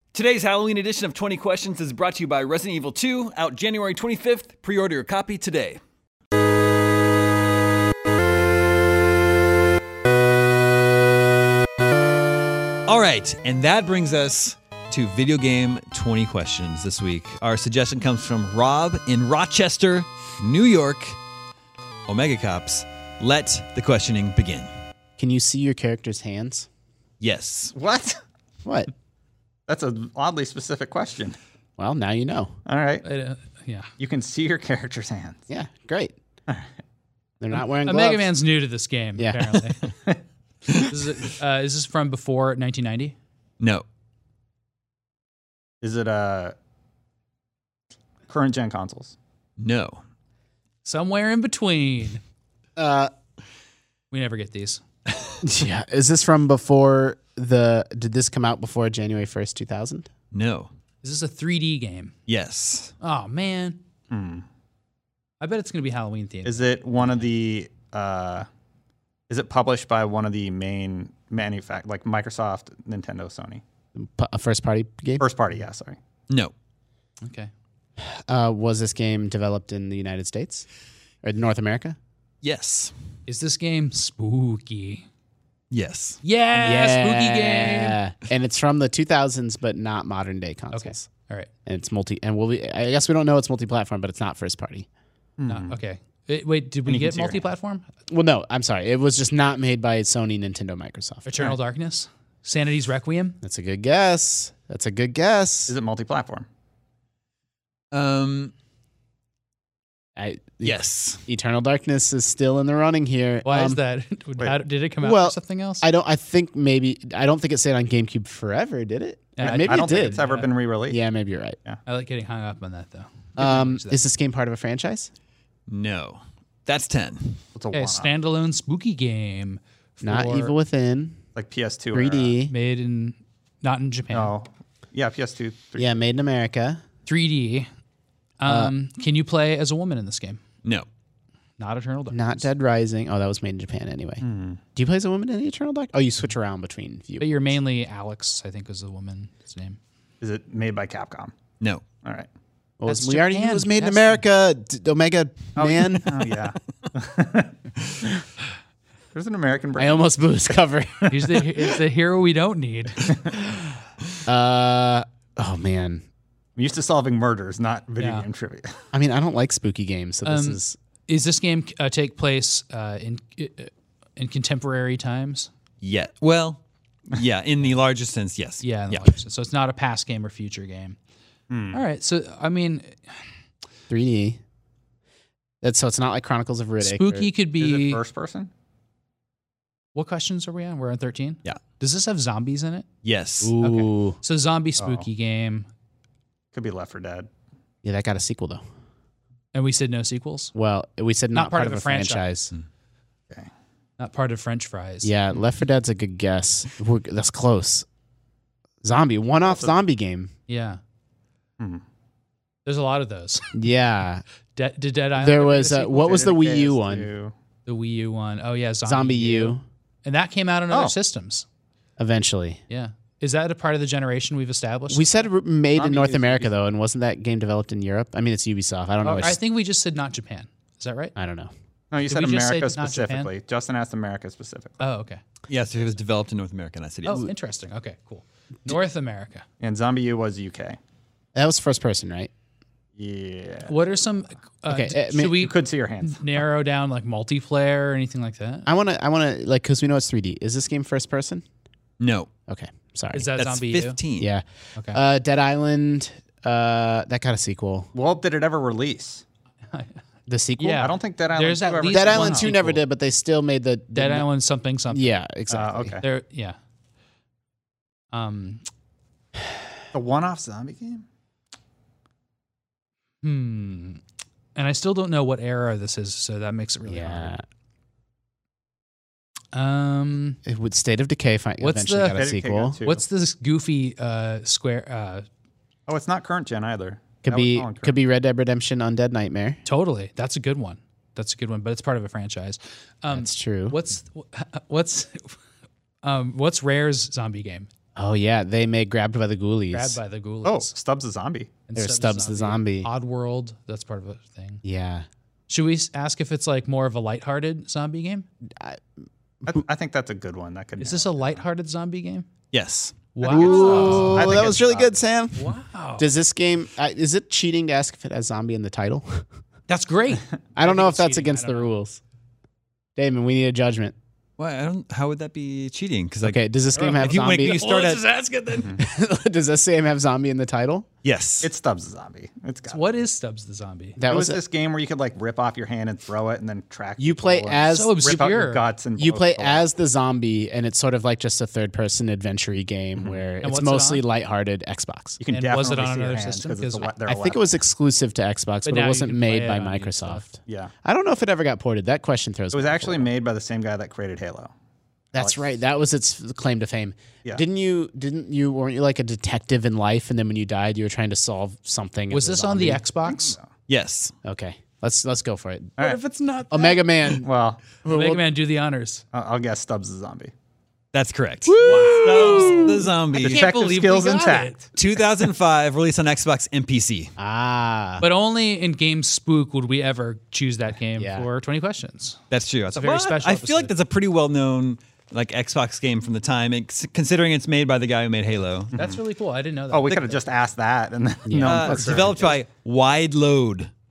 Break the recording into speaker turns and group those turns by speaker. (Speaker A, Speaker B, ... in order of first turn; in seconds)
Speaker A: 0.1-5.8, 12.9-21.2, 22.1-24.7, 27.2-27.7, 40.7-41.0, 43.6-43.9, 49.6-50.0, 55.1-55.4, 60.3-60.7, 62.3-62.9, 82.4-82.9, 85.7-86.2, 107.9-108.5, 110.6-111.2, 125.7-127.4, 175.8-179.2, 193.0-193.5, 235.5-237.3, 252.0-252.3, 253.4-254.3, 312.5-313.1, 324.4-328.0, 331.0-331.5, 363.7-364.1, 370.9-373.4, 374.8-377.1, 382.3-388.7, 391.4-393.7
Speaker B: 25.2-26.7, 28.6-28.9, 31.8-32.5, 35.5-36.1, 37.4-38.3, 39.2-39.7, 52.8-53.1, 55.4-60.1, 74.0-75.2, 78.3-80.7, 81.2-82.0, 86.5-91.1, 91.7-94.9, 98.1-101.5, 103.4-105.8, 110.2-113.8, 115.0-120.2, 120.9-121.6, 123.4-125.1, 130.0-131.2, 131.9-132.5, 135.8-136.8, 138.4-138.7, 142.1-144.2, 144.8-147.6, 152.8-156.2, 159.8-161.1, 164.3-166.1, 168.9-170.8, 183.9-184.4, 185.6-187.3, 193.4-194.2, 197.8-198.6, 200.6-202.5, 205.0-207.9, 208.8-210.3, 213.6-214.2, 215.2-217.1, 218.8-219.6, 222.0-222.6, 224.9-229.4, 231.2-231.5, 241.3-242.3, 244.7-245.4, 248.7-251.4, 252.5-253.3, 254.2-257.9, 260.3-260.9, 261.8-264.3, 264.9-266.0, 276.9-277.4, 280.5-282.8, 287.2-289.6, 293.1-293.8, 298.0-300.0, 301.8-302.9, 304.6-305.1, 308.6-308.8, 313.2-319.2, 320.6-322.0, 323.0-323.9, 326.2-327.6, 328.8-330.9, 334.0-334.4, 337.0-338.0, 339.0-345.2, 347.1-353.1, 355.1-362.8, 364.2-365.8, 366.5-367.3, 367.8-368.2, 371.7-372.8, 377.2-378.1, 381.0-381.3, 391.3-392.3
Speaker C: 27.8-28.2, 29.7-31.4, 32.7-33.0, 34.0-35.4, 45.8-46.5, 48.3-49.1, 64.1-64.5, 66.5-68.5, 69.3-73.6, 75.2-76.0, 95.4-95.8, 96.9-97.4, 105.7-106.5, 119.4-121.0, 127.5-128.1, 131.3-132.4, 134.1-136.0, 144.2-144.6, 150.2-151.3, 155.6-157.6, 159.1-161.3, 166.6-168.8, 181.5-181.8, 187.6-188.5, 194.8-195.1, 196.5-197.3, 209.5-209.8, 215.9-217.3, 220.7-221.0, 225.7-226.5, 231.9-234.8, 239.6-240.8, 243.0-243.8, 245.3-246.2, 257.9-259.2, 260.8-262.5, 265.5-266.0, 269.9-271.1, 282.1-283.1, 285.9-288.0, 300.4-301.5, 309.5-311.4, 313.3-315.0, 331.4-332.9, 334.1-339.7, 343.0-343.2, 345.2-347.6, 350.5-350.7, 352.5-354.5, 355.2-355.4, 363.1-363.5, 367.2-367.6, 369.1-370.3, 373.1-374.7, 388.7-389.0, 389.7-392.4
Speaker D: 33.0-33.9, 37.8-39.9, 40.8-43.1, 50.8-52.2, 54.1-54.8, 61.0-62.1, 63.0-63.8, 65.4-67.3, 77.2-77.5, 83.3-85.1, 86.2-88.0, 90.7-91.5, 95.5-97.9, 101.3-103.4, 113.5-115.9, 119.4-120.5, 121.9-124.0, 127.7-130.5, 132.5-134.3, 137.1-137.7, 138.4-140.4, 141.6-142.5, 147.2-149.8, 152.9-154.2, 161.1-163.2, 168.0-168.3, 170.3-175.5, 178.6-181.0, 181.7-183.2, 186.8-188.0, 189.9-192.9, 193.6-195.7, 199.5-200.5, 201.3-202.3, 204.0-205.1, 210.5-210.8, 212.7-213.5, 214.6-216.1, 217.7-221.5, 222.7-225.2, 229.0-231.1, 232.1-233.3, 234.8-235.2, 237.1-239.4, 243.7-248.7, 253.1-254.0, 259.7-260.0, 260.6-262.8, 263.9-265.1, 266.0-266.6, 268.1-268.6, 273.2-274.0, 274.6-277.3, 279.5-280.4, 281.6-282.2, 282.8-285.3, 289.6-295.4, 296.0-297.7, 299.7-300.7, 301.7-304.6, 305.5-308.3, 310.8-312.3, 313.2-314.5, 315.4-316.1, 319.7-321.7, 326.7-328.8, 332.7-334.0, 337.6-338.6, 343.4-344.0, 345.3-346.9, 348.6-350.2, 362.1-363.4, 365.8-366.8, 367.9-369.0, 371.5-374.6, 378.0-382.2, 382.7-383.7, 388.7-390.2